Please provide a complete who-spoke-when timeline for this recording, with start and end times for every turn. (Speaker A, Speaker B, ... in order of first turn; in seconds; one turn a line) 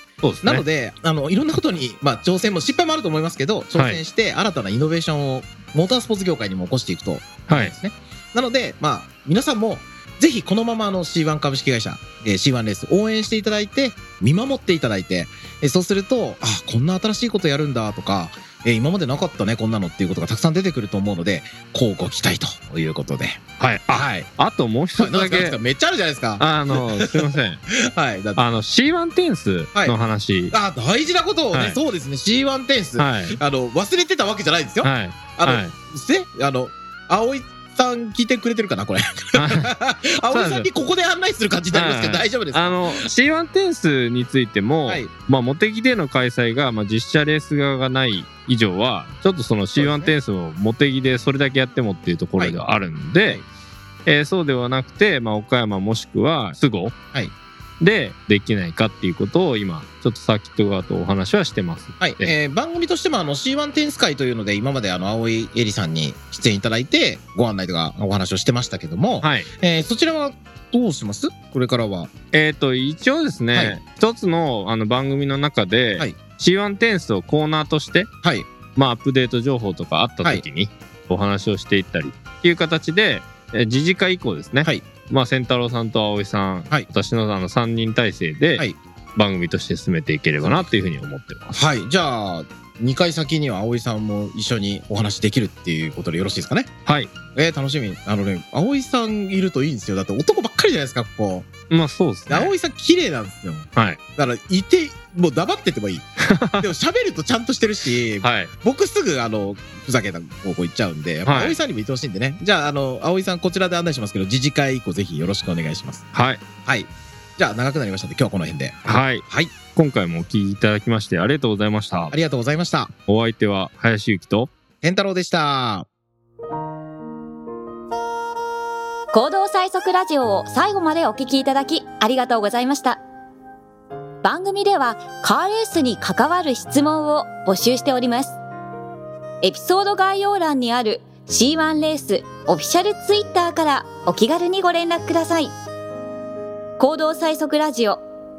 Speaker A: 0.2-0.6
Speaker B: 0.4-24.3
Speaker A: 3.7-4.0
Speaker A: 7.5-7.7
Speaker A: 23.6-25.6
Speaker B: 25.0-28.4
Speaker A: 26.4-27.6
Speaker A: 28.4-30.5
Speaker B: 30.5-43.1
Speaker A: 31.5-31.8
Speaker A: 33.0-33.4
Speaker A: 34.8-35.7
Speaker A: 39.3-39.7
Speaker A: 40.3-40.7
Speaker A: 41.7-53.4
Speaker B: 49.8-50.1
Speaker A: 54.0-56.9
Speaker A: 57.8-62.3
Speaker B: 62.0-72.1
Speaker A: 69.2-69.5
Speaker A: 72.3-78.1
Speaker B: 78.2-78.5
Speaker A: 78.7-91.6
Speaker B: 90.4-90.7
Speaker B: 91.5-96.7
Speaker A: 96.8-97.1
Speaker B: 97.3-101.5
Speaker A: 101.7-102.5
Speaker B: 102.3-106.1
Speaker A: 106.2-106.7
Speaker B: 106.6-116.0
Speaker A: 108.2-108.5
Speaker A: 111.2-111.6
Speaker A: 116.1-116.4
Speaker B: 116.6-119.5
Speaker A: 118.8-122.2
Speaker B: 122.1-122.9
Speaker A: 123.1-124.5
Speaker B: 124.8-125.9
Speaker C: 129.1-133.0
Speaker C: 134.2-138.4
Speaker C: 139.4-145.5
Speaker C: 146.8-148.0